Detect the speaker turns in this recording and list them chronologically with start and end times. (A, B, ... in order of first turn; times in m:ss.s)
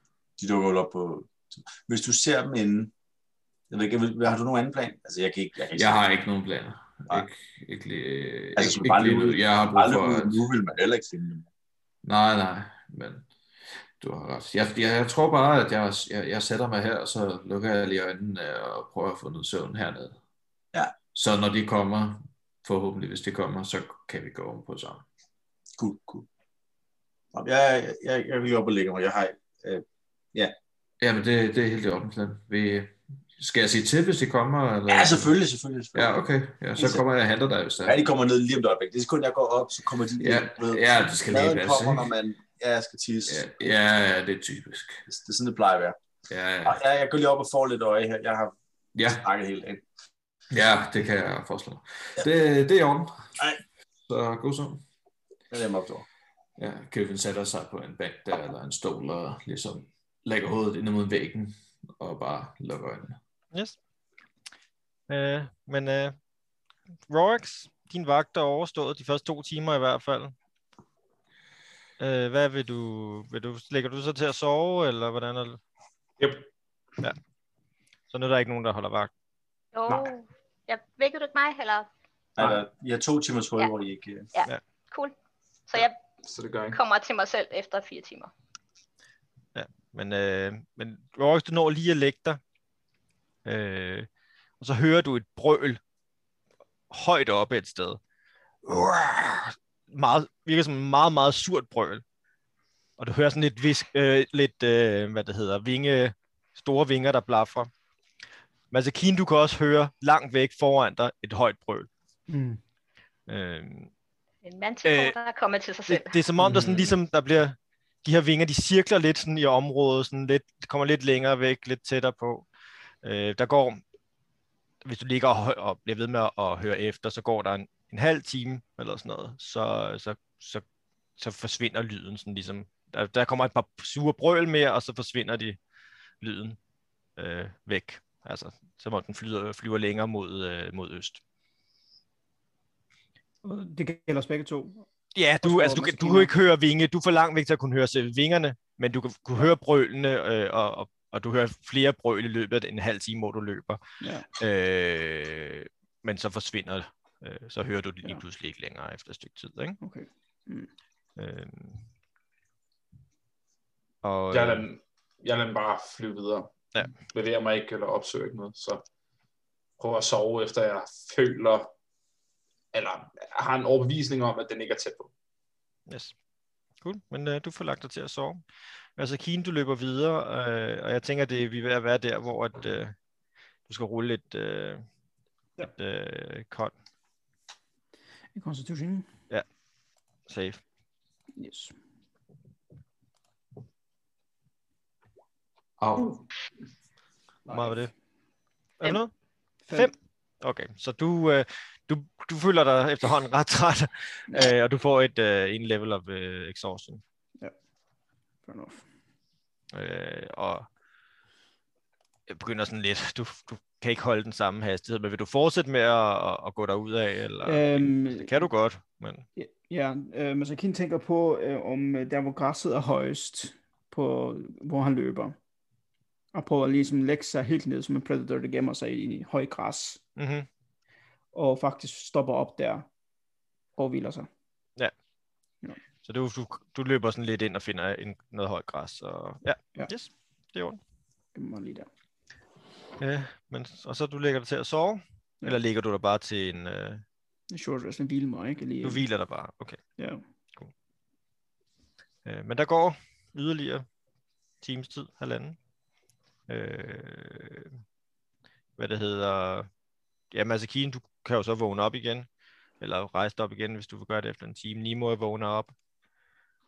0:00.4-0:02.9 A
0:03.7-0:06.0 A
0:05.7-0:10.4 B
0:08.6-0:11.5 A
0:12.0-0:13.3 B
0:14.0-0:20.2 B
0:21.1-0:25.0 B
0:25.8-0:26.3 A
0:27.3-0:30.5 A
0:31.0-0:35.3 B
0:34.9-0:36.2 A
0:36.0-0:38.0 B
0:36.8-0:37.0 A
0:37.9-0:43.5 A
0:40.2-0:42.1 B
0:43.3-0:45.0 B
0:45.1-0:46.0 A
0:46.3-0:46.8 B
0:46.6-0:48.6 A
0:49.0-0:49.2 B
0:49.1-0:49.8 A
0:50.5-0:53.4 B
0:54.1-0:54.8 B
0:55.5-0:56.1 A
0:56.6-1:03.2 B
1:05.1-1:06.2 C
1:07.1-1:10.4 C
1:12.0-1:15.6 C
1:16.2-1:16.5 D
1:18.1-1:19.1 C
1:19.7-1:21.9 E
1:22.4-1:24.3 A
1:24.3-1:25.2 E
1:25.7-1:26.0 E
1:26.2-1:26.8 D
1:26.7-1:28.3 E
1:29.6-1:32.4 C
1:33.4-1:34.1 C
1:34.6-1:35.8 C
1:36.9-1:38.0 C
1:38.6-1:42.0 C
1:43.0-1:47.7 C
1:48.7-1:51.9 C
1:52.3-1:52.6 F
1:53.3-1:53.9 C
1:54.4-1:56.2 E
1:54.8-1:55.2 C
1:55.9-2:02.5 C
1:56.5-1:57.0 B
2:03.0-2:03.8 C
2:04.8-2:10.6 C
2:11.2-2:15.6 C
2:16.2-2:16.6 C
2:17.2-2:21.2 C
2:23.4-2:24.9 F
2:25.2-2:33.8 C
2:25.4-2:26.3 F
2:34.0-2:34.3 F
2:34.4-2:39.8 C
2:39.8-2:40.7 F
2:41.2-2:41.8 C
2:44.0-2:44.6 C
2:44.3-2:48.8 D
2:49.8-2:51.7 D
2:52.7-2:55.1 D
2:55.9-2:56.1 C
2:56.8-2:58.4 C
2:59.0-3:03.0 C
3:03.7-3:04.8 C
3:05.6-3:06.7 C
3:08.4-3:09.1 F
3:10.3-3:10.6 C
3:11.4-3:11.8 F
3:15.8-3:16.2 B
3:17.5-3:17.9 C
3:17.5-3:17.8 F
3:18.8-3:19.1 C
3:19.6-3:19.9 F
3:19.7-3:27.0 C
3:28.5-3:28.9 F
3:29.7-3:30.7 C
3:32.3-3:39.2 C
3:37.4-3:38.4 F
3:39.4-3:45.4 F
3:46.3-3:50.0 F
3:50.2-3:50.5 C
3:51.3-3:52.9 F
3:53.8-3:54.3 F
3:56.0-4:00.8 C
4:01.4-4:01.9 F
4:03.0-4:07.0 C
4:07.5-4:09.0 F
4:08.8-4:09.8 C
4:10.0-4:10.2 F
4:12.2-4:13.9 C
4:14.6-4:15.6 C
4:16.5-4:17.8 C
4:18.8-4:19.7 C
4:20.3-4:22.3 C
4:22.8-4:25.7 C